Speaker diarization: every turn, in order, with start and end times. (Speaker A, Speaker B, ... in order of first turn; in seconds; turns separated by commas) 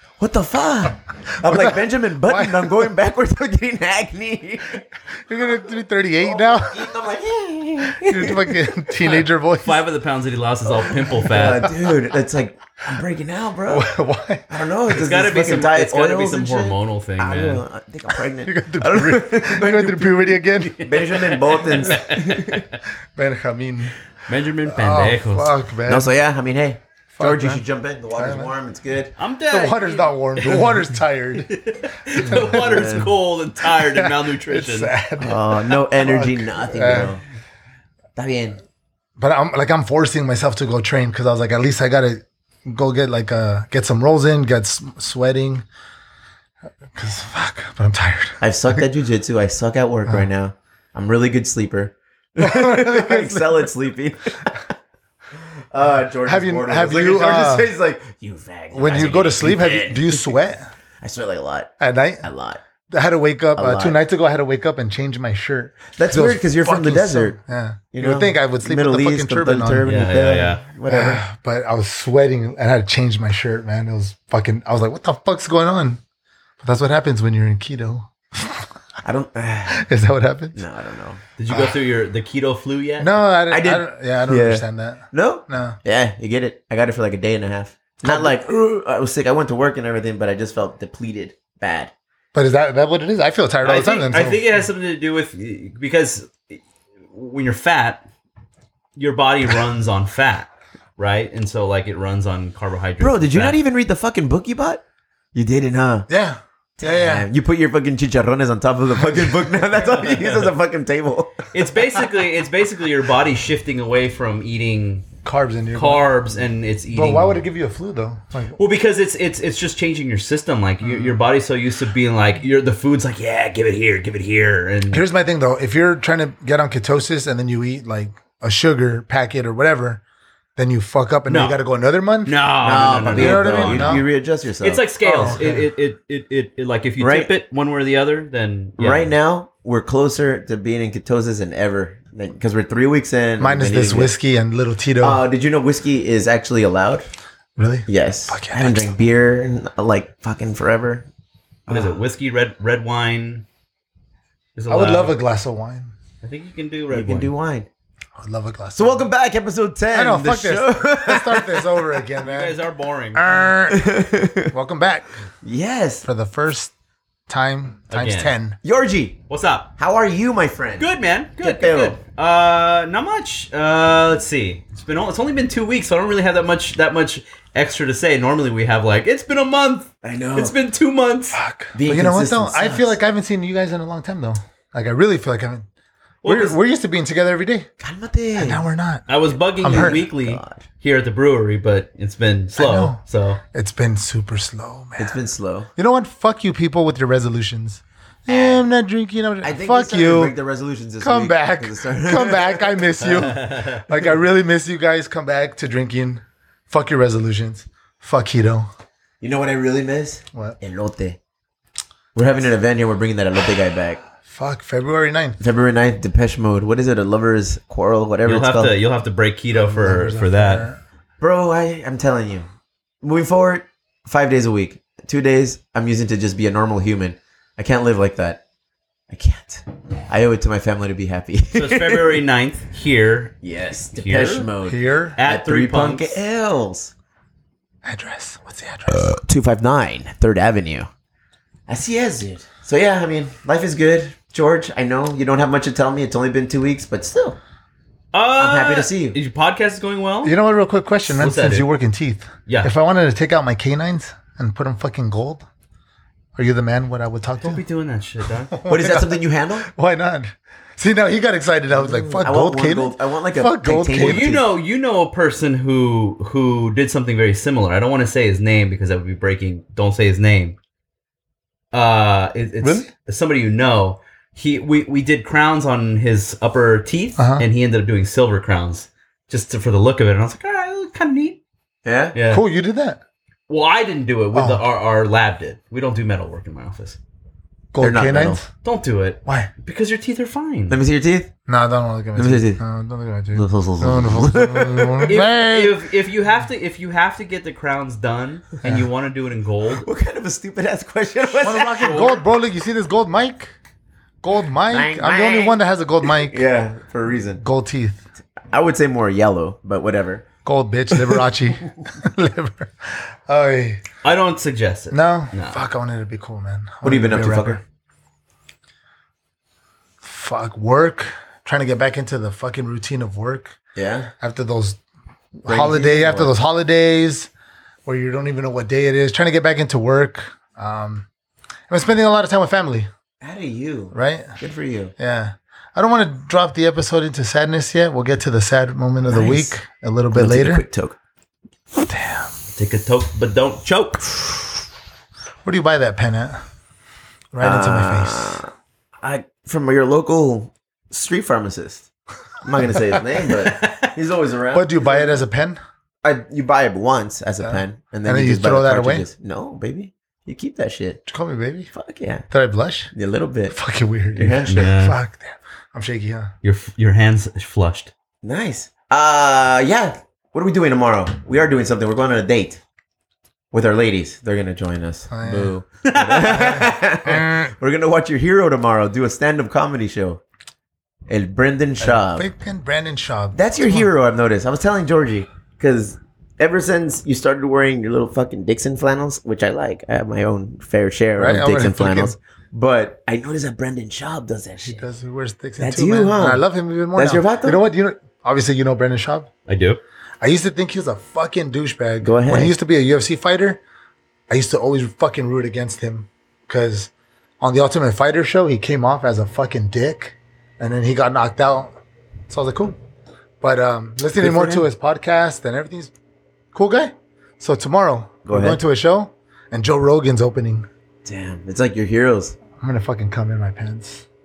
Speaker A: 0.2-4.8, Speaker B: 1.4-2.9, Speaker B: 5.3-6.9, Speaker A: 6.2-8.8, Speaker B: 7.8-9.8, Speaker C: 9.6-11.8, Speaker A: 10.8-13.9, Speaker B: 13.7-14.5, Speaker A: 14.5-22.7, Speaker C: 14.9-17.6, Speaker B: 18.4-20.8, Speaker C: 20.6-22.6, Speaker B: 23.1-23.9, Speaker C: 24.3-25.5, Speaker B: 24.7-26.1, Speaker A: 25.9-29.1, Speaker B: 27.1-27.6, Speaker B: 28.2-28.5, Speaker C: 29.2-30.9, Speaker B: 29.5-31.5, Speaker C: 31.4-34.9, Speaker B: 32.1-32.9, Speaker A: 32.2-33.1, Speaker B: 33.7-37.2, Speaker A: 35.2-37.2, Speaker A: 38.2-38.6, Speaker B: 39.2-45.6, Speaker B: 46.9-48.9, Speaker A: 48.4-54.7, Speaker B: 52.4-53.7, Speaker A: 55.7-60.4, Speaker B: 56.3-57.7, Speaker B: 58.7-60.7, Speaker A: 61.0-62.6, Speaker B: 61.8-62.2, Speaker B: 62.9-69.9, Speaker A: 63.6-64.0, Speaker A: 66.0-67.4, Speaker A: 67.9-71.2, Speaker C: 69.8-70.6, Speaker B: 70.9-76.0, Speaker B: 76.6-78.7, Speaker A: 79.0-79.8, Speaker B: 79.7-80.6, Speaker A: 80.6-81.2, Speaker C: 81.4-83.1, Speaker B: 83.0-85.8, Speaker A: 83.5-91.9, Speaker B: 88.0-88.3, Speaker B: 92.3-94.7, Speaker C: 93.6-96.6, Speaker C: 97.1-98.1, Speaker C: 99.0-103.6, Speaker A: 103.0-104.8, Speaker A: 105.3-106.1, Speaker B: 106.1-107.3, Speaker A: 106.8-111.5, Speaker C: 109.9-110.5, Speaker C: 111.5-115.1, Speaker B: 115.2-116.1, Speaker C: 115.7-117.4, Speaker B: 116.9-118.6, Speaker C: 118.6-125.0, Speaker B: 120.8-121.2, Speaker B: 124.9-130.0, Speaker B: 130.6-132.4, Speaker C: 131.3-131.6, Speaker C: 132.2-134.0, Speaker A: 132.6-135.4, Speaker B: 133.0-134.1, Speaker C: 134.6-139.1, Speaker B: 135.1-135.7, Speaker A: 137.0-137.3, Speaker A: 138.8-144.1, Speaker B: 143.4-145.2, Speaker A: 145.0-147.1, Speaker B: 147.6-148.9, Speaker A: 147.9-151.1, Speaker A: 151.7-152.0, Speaker C: 151.7-153.5, Speaker C: 154.6-155.2, Speaker B: 154.7-155.9, Speaker C: 156.2-157.3, Speaker A: 156.9-157.7, Speaker B: 158.2-159.1, Speaker A: 158.8-162.0, Speaker B: 159.9-162.6, Speaker C: 162.2-163.5, Speaker B: 163.1-163.9, Speaker A: 163.7-164.5, Speaker B: 164.5-165.2, Speaker A: 165.4-166.1, Speaker B: 166.0-166.7, Speaker B: 167.3-168.6, Speaker C: 167.9-168.3, Speaker A: 168.6-169.2, Speaker C: 169.3-169.7, Speaker A: 169.8-172.0, Speaker C: 170.8-181.4, Speaker A: 180.0-180.6, Speaker B: 181.3-185.7, Speaker A: 181.7-182.9, Speaker C: 186.2-186.6, Speaker B: 186.2-187.7, Speaker A: 187.8-188.7, Speaker B: 188.4-189.1, Speaker C: 189.1-193.4, Speaker B: 189.6-190.0, Speaker A: 189.6-190.6, Speaker B: 192.6-193.0, Speaker B: 193.5-195.2, Speaker A: 195.0-195.7, Speaker B: 195.8-200.3, Speaker A: 198.3-198.6, Speaker A: 199.4-202.9, Speaker B: 201.0-208.7, Speaker C: 203.3-203.8, Speaker A: 209.2-211.2, Speaker A: 212.2-214.0, Speaker B: 214.3-215.4, Speaker A: 215.4-218.8, Speaker C: 218.2-220.7, Speaker B: 219.5-220.8, Speaker A: 221.2-222.5, Speaker A: 223.0-228.4, Speaker A: 229.1-232.2, Speaker C: 231.5-233.4, Speaker A: 233.4-236.9, Speaker C: 233.9-234.5, Speaker B: 234.6-235.2, Speaker C: 235.2-236.2, Speaker B: 237.8-239.2, Speaker A: 239.0-240.9, Speaker A: 241.7-247.4, Speaker C: 248.1-250.3, Speaker A: 248.4-249.2, Speaker B: 250.2-255.4, Speaker C: 251.1-251.7, Speaker C: 252.5-252.7, Speaker B: 256.4-257.6, Speaker C: 257.4-258.6, Speaker B: 258.5-264.3, Speaker A: 258.7-259.7, Speaker A: 261.7-264.5, Speaker C: 263.9-270.6, Speaker C: 271.7-281.4, Speaker B: 272.6-272.9, Speaker B: 277.2-277.4, Speaker A: 281.9-282.2, Speaker C: 282.1-282.4, Speaker B: 282.3-283.0, Speaker C: 283.5-287.0, Speaker B: 284.3-284.6, Speaker B: 287.7-288.5, Speaker A: 287.8-288.4, Speaker C: 288.6-290.8, Speaker B: 289.2-289.5, Speaker A: 290.7-291.3, Speaker B: 291.5-295.9, Speaker A: 292.2-292.6, Speaker A: 293.4-295.2, Speaker C: 295.1-299.9, Speaker A: 299.8-302.2, Speaker C: 301.3-302.2, Speaker B: 301.4-303.5, Speaker B: 304.2-306.4, Speaker A: 304.7-307.4, Speaker B: 307.4-308.0, Speaker A: 308.5-310.3, Speaker B: 310.4-313.8, Speaker A: 310.9-311.3, Speaker C: 314.0-315.6, Speaker B: 314.9-317.6, Speaker A: 316.8-317.6, Speaker B: 320.0-323.6, Speaker A: 323.8-324.1, Speaker B: 324.2-324.8, Speaker B: 325.4-327.3, Speaker A: 325.4-326.3, Speaker B: 327.9-331.1, Speaker B: 331.7-332.9, Speaker A: 333.2-334.9, Speaker B: 333.9-334.3, Speaker B: 335.0-340.6, Speaker A: 339.1-339.5, Speaker A: 340.1-341.0, Speaker B: 341.9-342.3, Speaker C: 342.6-344.2, Speaker B: 345.4-346.4, Speaker B: 347.3-348.4, Speaker A: 347.4-348.5, Speaker A: 349.0-351.9, Speaker A: 352.4-355.2, Speaker C: 353.4-353.9, Speaker B: 354.5-355.6, Speaker A: 356.0-361.0, Speaker B: 357.4-359.1, Speaker B: 361.1-361.7, Speaker A: 361.7-362.3, Speaker B: 362.3-362.9, Speaker A: 362.9-363.6, Speaker B: 363.5-366.3, Speaker A: 364.1-364.7, Speaker C: 364.5-365.0, Speaker C: 366.4-367.9, Speaker A: 368.2-372.6, Speaker A: 373.5-380.2, Speaker B: 375.1-375.5, Speaker C: 375.9-376.6, Speaker B: 376.3-377.5, Speaker A: 381.1-382.3, Speaker B: 381.8-383.9, Speaker A: 383.4-394.8, Speaker B: 391.2-392.1, Speaker B: 394.6-399.3, Speaker A: 395.6-396.4, Speaker A: 397.0-397.6, Speaker C: 399.5-399.8, Speaker B: 400.2-403.6, Speaker A: 402.0-402.5, Speaker B: 404.3-411.8, Speaker B: 412.3-412.8, Speaker B: 413.4-415.9, Speaker A: 414.2-414.6, Speaker B: 416.5-420.7, Speaker A: 418.3-418.6, Speaker A: 421.1-422.4, Speaker B: 422.6-424.1